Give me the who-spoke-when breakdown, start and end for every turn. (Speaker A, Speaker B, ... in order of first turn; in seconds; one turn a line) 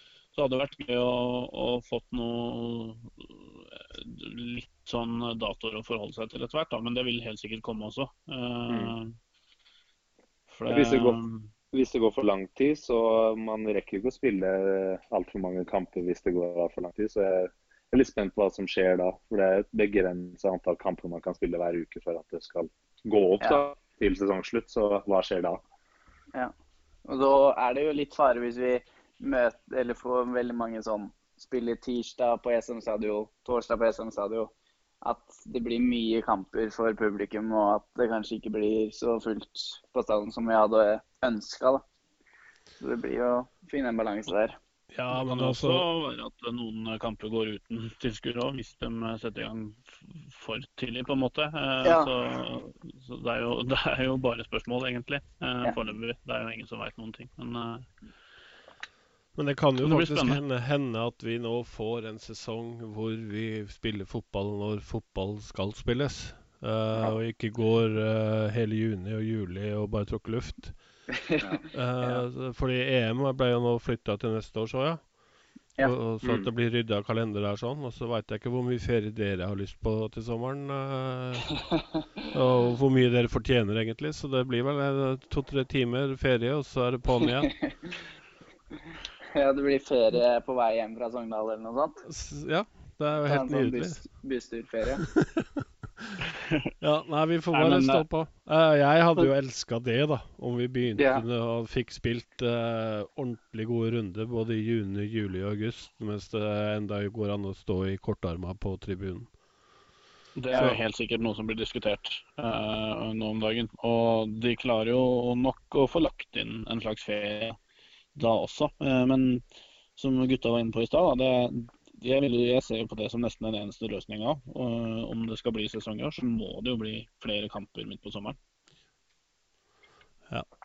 Speaker A: 0.3-9.1
Speaker A: 10.5-11.5
Speaker B: 10.7-11.2
Speaker B: 11.7-25.6
Speaker C: 27.1-41.8
Speaker C: 42.8-44.6
Speaker D: 44.9-45.9
Speaker A: 45.1-57.9
Speaker C: 51.8-52.1
Speaker D: 59.4-70.8
Speaker A: 59.8-60.4
Speaker C: 71.2-72.2
Speaker D: 71.7-75.0
Speaker D: 75.8-81.5
Speaker B: 76.2-76.5
Speaker D: 82.3-87.5
Speaker C: 89.3-92.0
Speaker D: 92.0-94.0
Speaker C: 93.2-95.0
Speaker D: 95.1-95.5
Speaker D: 96.8-109.3
Speaker A: 97.5-98.0
Speaker A: 110.3-117.6
Speaker A: 118.1-119.4
Speaker A: 120.0-128.4